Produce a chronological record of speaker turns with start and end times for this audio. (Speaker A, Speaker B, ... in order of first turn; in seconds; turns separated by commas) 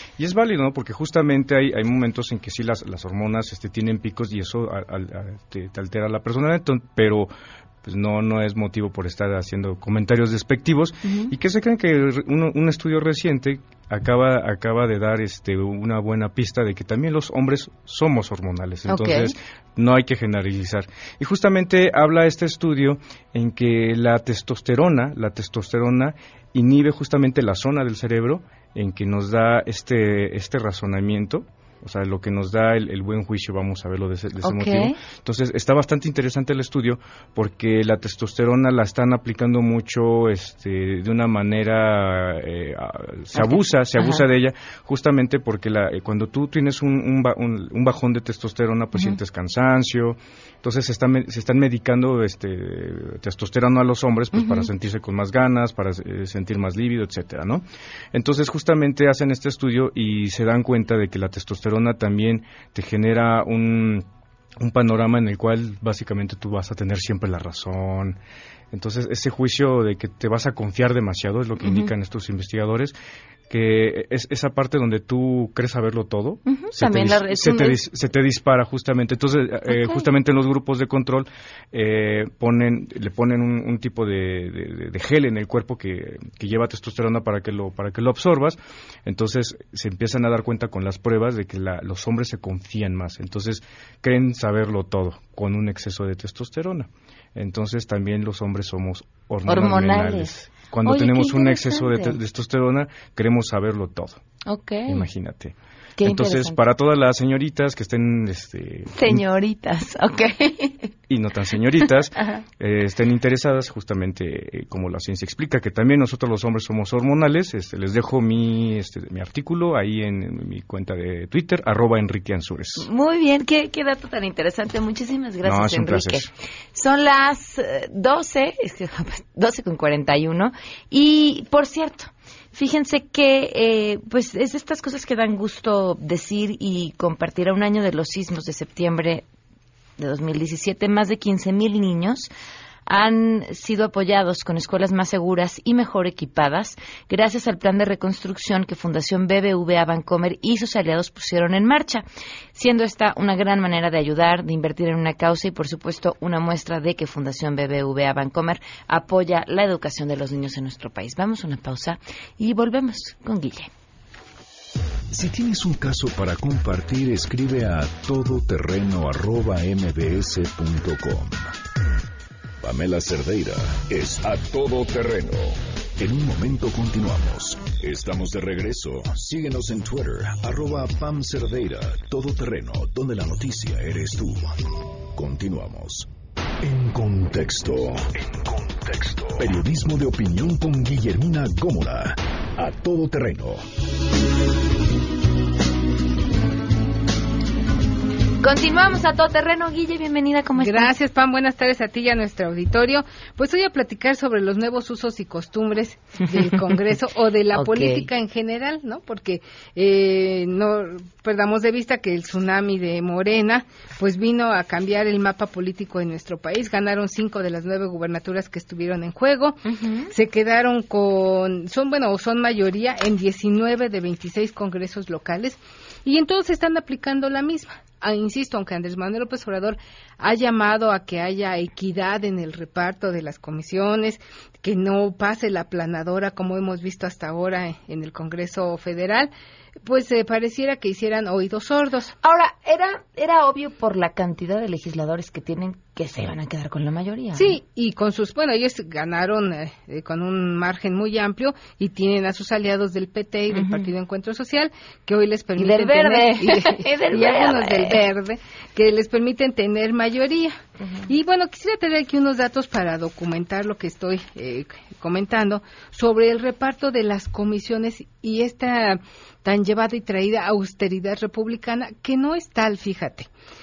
Speaker A: 0.2-7.3, Speaker A: 7.8-64.0, Speaker B: 11.0-11.3, Speaker B: 18.9-19.3, Speaker B: 34.4-35.0, Speaker B: 43.4-44.3, Speaker B: 54.4-54.7, Speaker A: 64.6-68.2, Speaker A: 68.7-72.9, Speaker B: 71.6-71.9, Speaker A: 73.5-104.2, Speaker B: 76.5-77.8, Speaker B: 79.7-80.1, Speaker B: 99.5-102.2, Speaker B: 104.5-105.1, Speaker A: 104.9-109.2, Speaker B: 106.0-106.6, Speaker B: 108.9-110.9, Speaker A: 111.1-122.9, Speaker B: 122.8-139.2, Speaker A: 125.4-126.3, Speaker B: 140.0-142.3, Speaker B: 142.9-163.7, Speaker C: 165.1-171.5, Speaker C: 172.6-184.5, Speaker C: 185.1-186.1, Speaker C: 186.6-193.6, Speaker B: 198.4-200.9, Speaker D: 200.6-239.3, Speaker B: 207.5-208.1, Speaker B: 219.7-220.1, Speaker D: 239.8-242.2, Speaker B: 242.2-247.6, Speaker D: 247.3-273.3, Speaker B: 253.5-253.9, Speaker B: 255.6-258.0, Speaker B: 260.8-261.1